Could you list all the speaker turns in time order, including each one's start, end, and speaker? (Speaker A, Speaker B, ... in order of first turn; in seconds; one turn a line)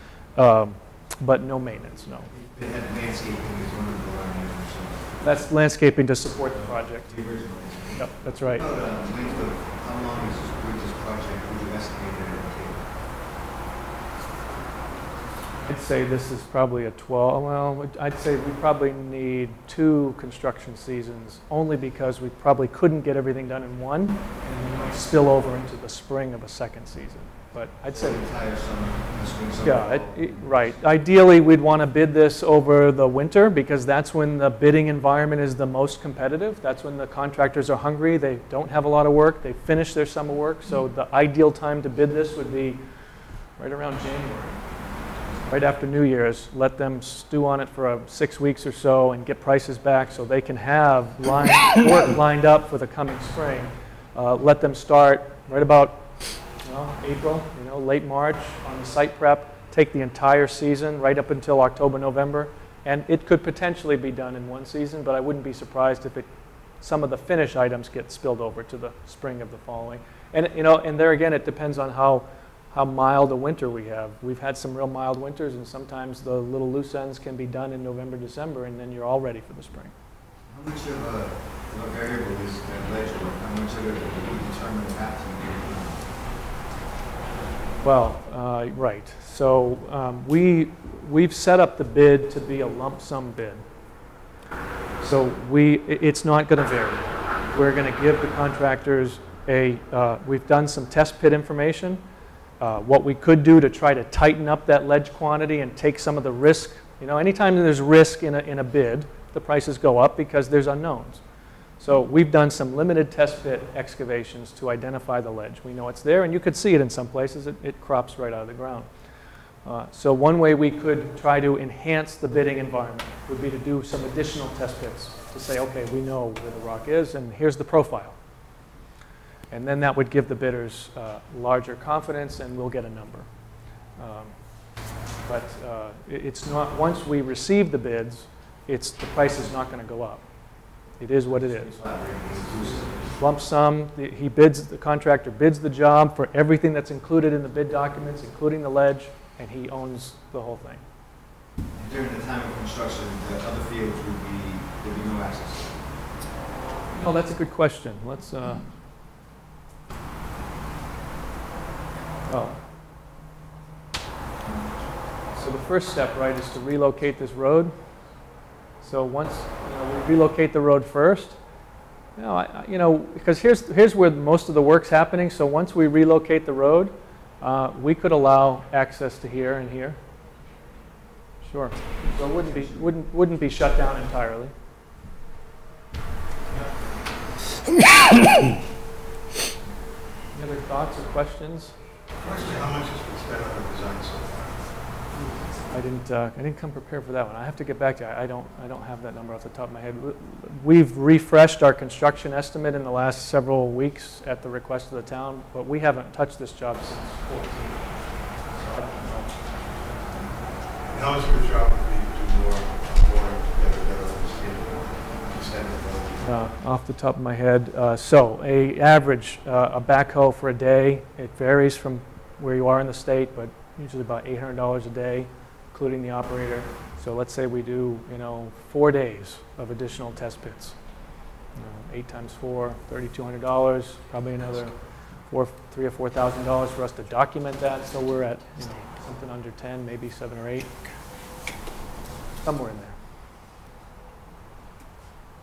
Speaker A: 0.4-2.3
Speaker B: 2.3-5.3
Speaker A: 5.2-7.1
Speaker B: 7.0-12.8
Speaker A: 7.9-8.6
Speaker A: 15.7-28.2
Speaker B: 27.9-30.4
Speaker A: 29.6-42.8
Speaker A: 43.6-44.6
Speaker A: 45.5-56.1
Speaker A: 56.6-66.3
Speaker A: 66.8-79.9
Speaker B: 80.5-86.1
Speaker A: 87.8-93.6
Speaker A: 95.0-102.0
Speaker A: 102.6-111.2
Speaker A: 111.8-118.9
Speaker A: 119.6-128.2
Speaker A: 129.5-133.3
Speaker A: 134.0-134.3
Speaker A: 135.2-140.2
Speaker A: 141.0-141.7
Speaker B: 141.4-143.1
Speaker A: 143.2-150.8
Speaker B: 151.7-155.8
Speaker A: 156.9-158.6
Speaker A: 162.3-162.6
Speaker A: 165.3-167.7
Speaker A: 168.8-171.4
Speaker A: 172.2-180.0
Speaker A: 181.4-184.5
Speaker A: 190.3-191.7
Speaker C: 192.2-194.6
Speaker A: 195.7-207.9
Speaker A: 208.7-209.3
Speaker C: 210.8-216.3
Speaker A: 216.2-230.8
Speaker A: 231.6-234.8
Speaker A: 235.3-240.7
Speaker A: 242.4-242.9